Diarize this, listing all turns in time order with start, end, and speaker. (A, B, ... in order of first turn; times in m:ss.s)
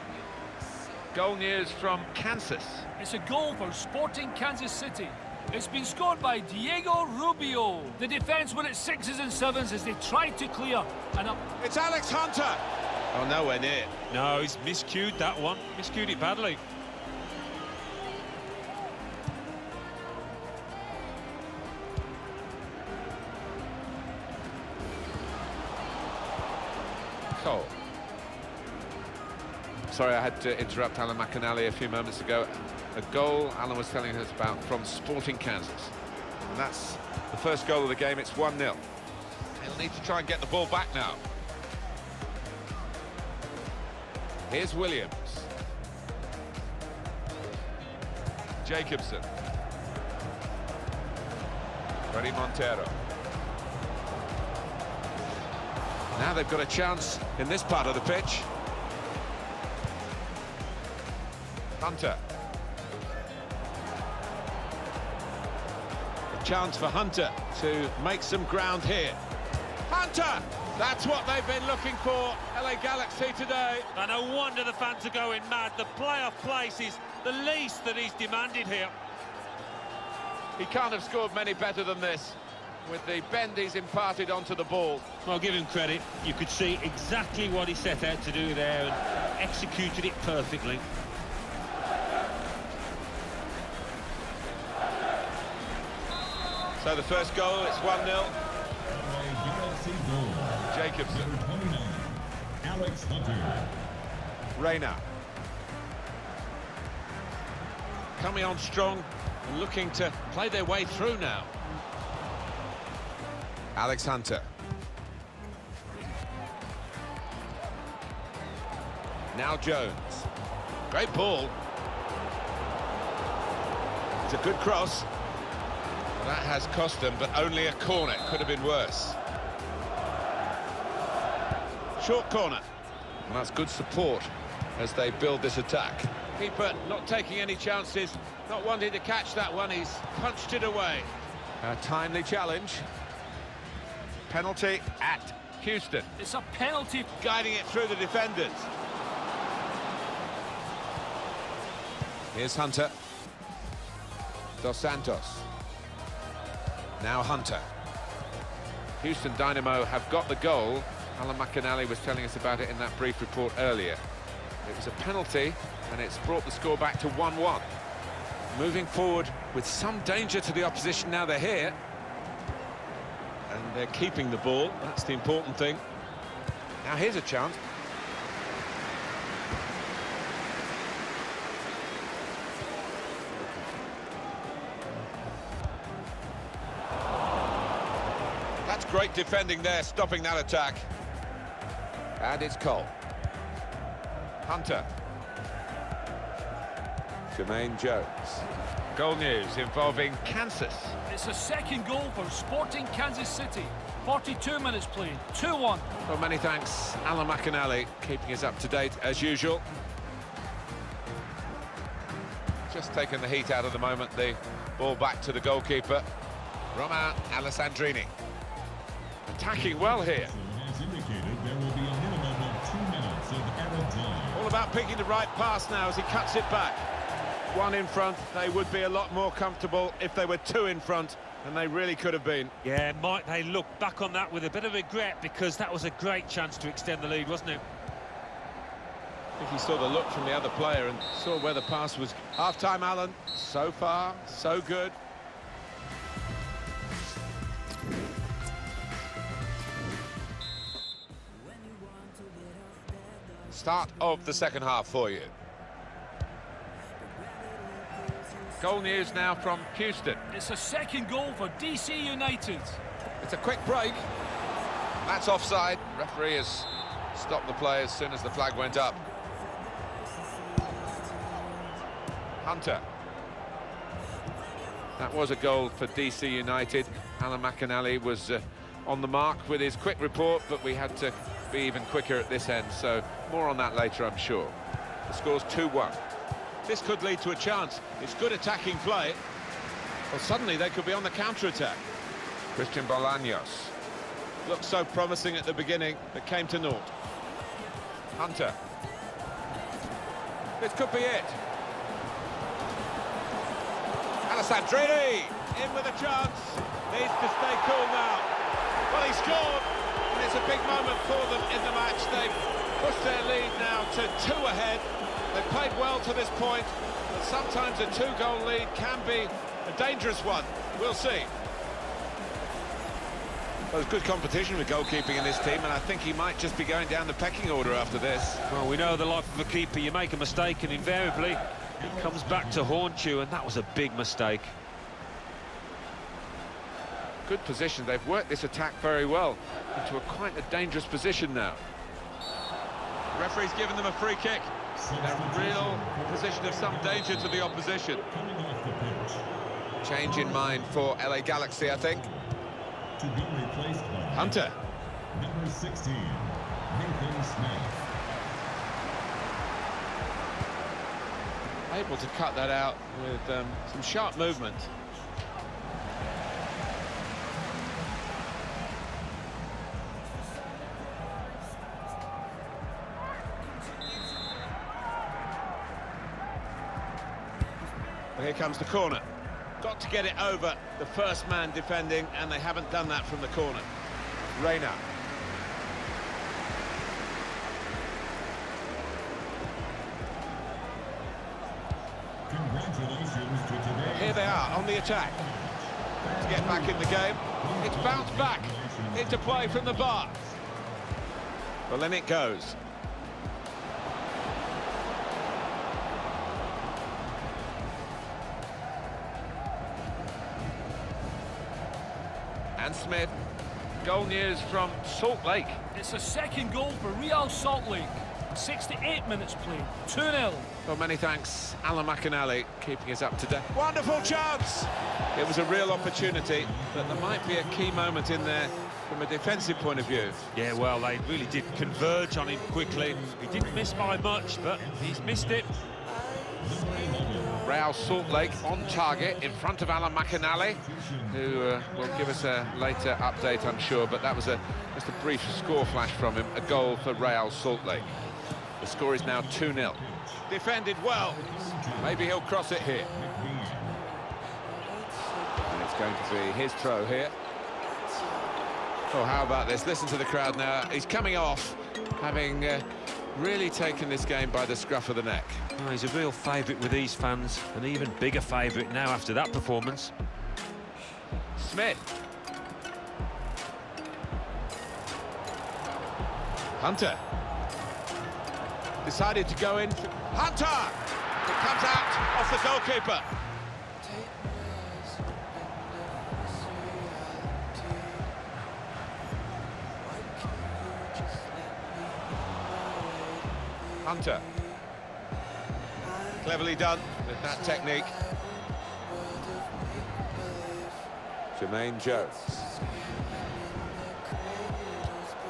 0:01.1-0:02.9 A
0:03.0-0:11.4 B
0:11.6-0:13.9 A
0:14.1-0:16.6 C
0:27.3-0:27.7 A
0:29.9-0:35.9 A
0:36.5-0:38.8 A
0:39.6-0:41.2 A
0:44.5-0:45.5 A
0:48.6-0:49.3 A
0:52.1-0:53.0 A
0:56.1-0:58.5 A
1:01.8-1:02.2 A
1:06.3-1:09.2 A
1:09.9-1:13.9 A
1:13.9-1:18.9 C
1:20.6-1:25.0 A
1:25.2-1:30.8 C
1:36.8-1:38.4 A
1:38.9-1:43.7 D
1:40.7-1:41.3 A
1:44.6-1:45.0 A
1:48.2-1:51.5 A
1:53.7-1:54.5 A
1:59.3-2:00.2 A
2:00.9-2:01.6 A
2:04.2-2:05.0 A
2:06.1-2:09.2 A
2:12.0-2:12.6 A
2:13.2-2:22.8 A
2:24.3-2:26.1 A
2:26.2-2:27.1 B
2:27.2-2:28.7 A
2:32.3-2:32.9 A
2:34.6-2:35.5 A
2:37.0-2:37.7 A
2:39.0-2:44.0 A
2:44.6-2:47.7 A
2:48.5-2:51.8 A
2:53.5-2:55.8 A
2:56.8-2:57.6 A
3:08.6-3:10.9 A
3:12.2-3:12.9 A
3:14.4-3:14.9 A
3:17.3-3:18.4 A
3:18.9-3:21.0 A
3:21.1-3:25.9 B
3:26.0-3:29.6 A
3:32.7-3:36.1 A
3:36.7-3:38.1 A
3:39.3-3:40.3 A
3:39.4-3:44.5 D
3:44.3-3:46.9 A
3:47.5-3:52.5 A
3:52.6-3:57.6 C
3:59.4-4:05.0 A
4:13.5-4:15.3 A
4:18.6-4:20.2 A
4:20.3-4:22.8 B
4:23.2-4:24.1 A
4:25.0-4:29.0 A
4:32.4-4:32.8 A
4:35.0-4:44.6 A
4:45.1-4:46.0 A
4:46.7-4:49.2 A
4:50.1-4:51.8 A
4:52.5-4:53.7 A
4:54.4-4:56.9 A
4:58.2-4:58.6 A
5:00.6-5:01.4 A
5:04.3-5:08.3 A
5:08.9-5:21.3 A
5:23.7-5:28.4 A
5:28.5-5:34.5 C
5:31.8-5:32.9 D
5:37.3-5:41.6 A
5:43.1-5:48.0 A
5:44.8-5:49.2 D
5:49.8-5:52.0 A
5:50.0-5:50.8 D
5:51.5-5:52.4 D
5:53.0-5:54.4 D
5:54.1-5:54.6 A
5:55.1-5:57.8 D
6:01.7-6:04.7 A
6:18.1-6:19.0 A
6:19.6-6:23.7 A
6:24.3-6:24.8 A
6:32.3-6:40.3 D
6:33.9-6:35.2 A
6:36.2-6:40.2 A
6:41.7-6:42.6 A
6:52.6-6:53.1 A
6:53.8-6:55.6 A
6:55.7-7:00.5 B
7:00.6-7:10.2 A
7:05.5-7:08.2 D
7:09.1-7:15.7 D
7:10.3-7:15.5 C
7:16.4-7:18.5 D
7:17.4-7:27.9 A
7:20.3-7:22.8 D
7:25.3-7:28.1 D
7:28.6-7:31.2 A
7:28.9-7:30.3 D
7:31.1-7:33.9 D
7:31.8-7:32.9 A
7:35.4-7:37.1 A
7:38.9-7:45.4 A
7:45.6-7:49.9 C
7:51.4-7:51.9 A
7:56.6-7:57.0 A
7:58.8-8:03.1 A
8:13.8-8:14.3 A
8:16.2-8:17.9 A
8:21.3-8:22.2 A